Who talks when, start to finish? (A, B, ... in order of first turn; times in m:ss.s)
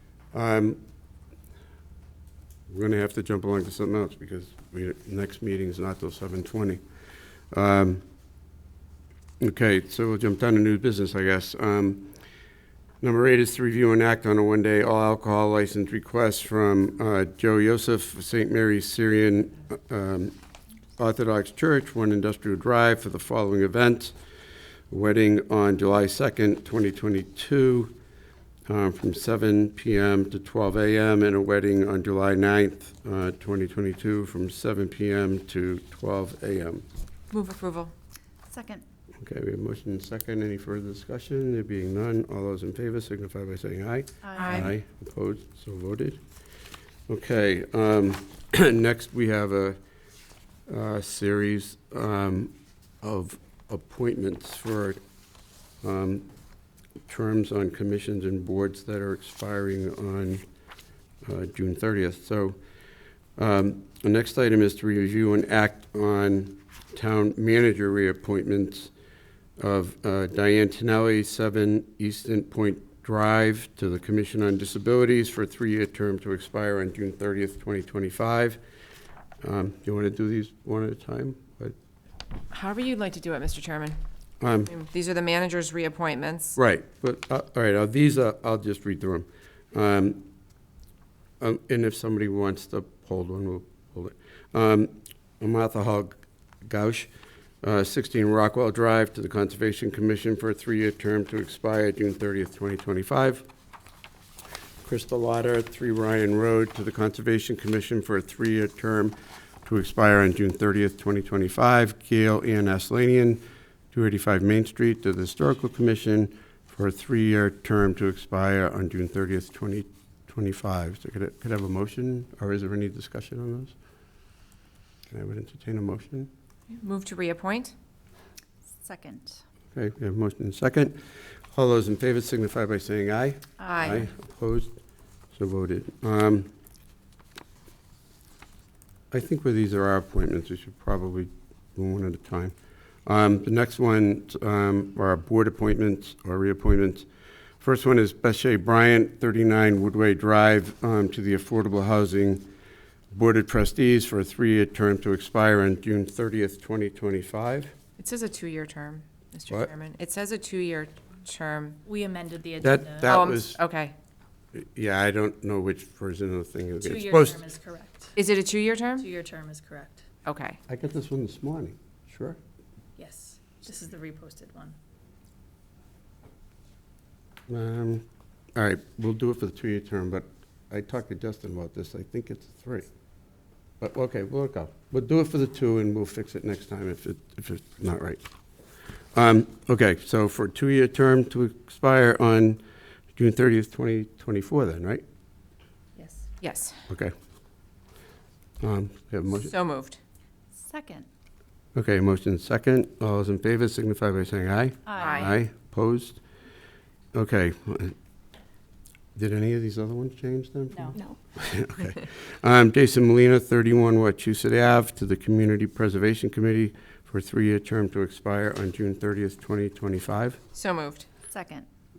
0:00.3-0:00.8 A
0:02.7-0:06.8 A
0:07.5-0:08.0 A
0:09.4-0:12.1 A
0:13.0-0:20.4 A
0:21.0-0:24.2 A
0:24.9-0:27.9 A
0:28.7-0:36.8 A
0:37.3-0:37.9 B
0:38.5-0:38.8 C
0:39.2-0:46.2 A
0:44.2-0:44.7 C
0:44.4-0:44.7 B
0:47.1-0:49.8 A
0:50.7-0:55.0 A
0:55.8-0:56.3 A
0:57.1-1:00.4 A
1:01.2-1:02.6 A
1:03.4-1:08.9 A
1:09.6-1:18.6 A
1:19.4-1:21.8 A
1:22.5-1:24.0 B
1:24.4-1:24.7 A
1:24.7-1:26.6 B
1:26.6-1:30.2 A
1:31.4-1:37.1 A
1:37.6-1:43.4 A
1:44.8-2:03.7 A
2:05.1-2:06.3 A
2:06.7-2:07.7 B
2:08.8-2:09.4 C
2:09.7-2:11.0 A
2:11.5-2:14.8 A
2:13.6-2:14.1 B
2:15.3-2:16.5 A
2:19.1-2:22.5 A
2:23.1-2:27.1 A
2:27.6-2:32.4 A
2:33.1-2:37.7 A
2:38.0-2:41.8 B
2:41.8-2:43.1 C
2:42.6-2:43.6 A
2:43.0-2:44.0 B
2:44.6-2:47.5 A
2:46.8-2:48.2 C
2:48.2-2:49.1 B
2:49.0-2:50.1 C
2:50.2-2:50.6 B
2:50.7-2:52.4 A
2:53.0-2:54.8 C
2:57.5-2:58.0 A
2:58.6-3:02.9 A
3:03.8-3:08.2 A
3:09.1-3:12.6 A
3:13.2-3:15.0 A
3:16.0-3:16.3 C
3:16.4-3:16.8 B
3:16.9-3:17.1 A
3:18.6-3:19.5 A
3:19.4-3:20.0 B
3:20.6-3:21.1 C
3:21.8-3:26.2 A
3:24.9-3:25.4 C
3:25.0-3:25.4 B
3:27.1-3:28.0 A
3:29.2-3:40.4 A
3:40.5-3:41.1 B
3:41.3-3:41.7 C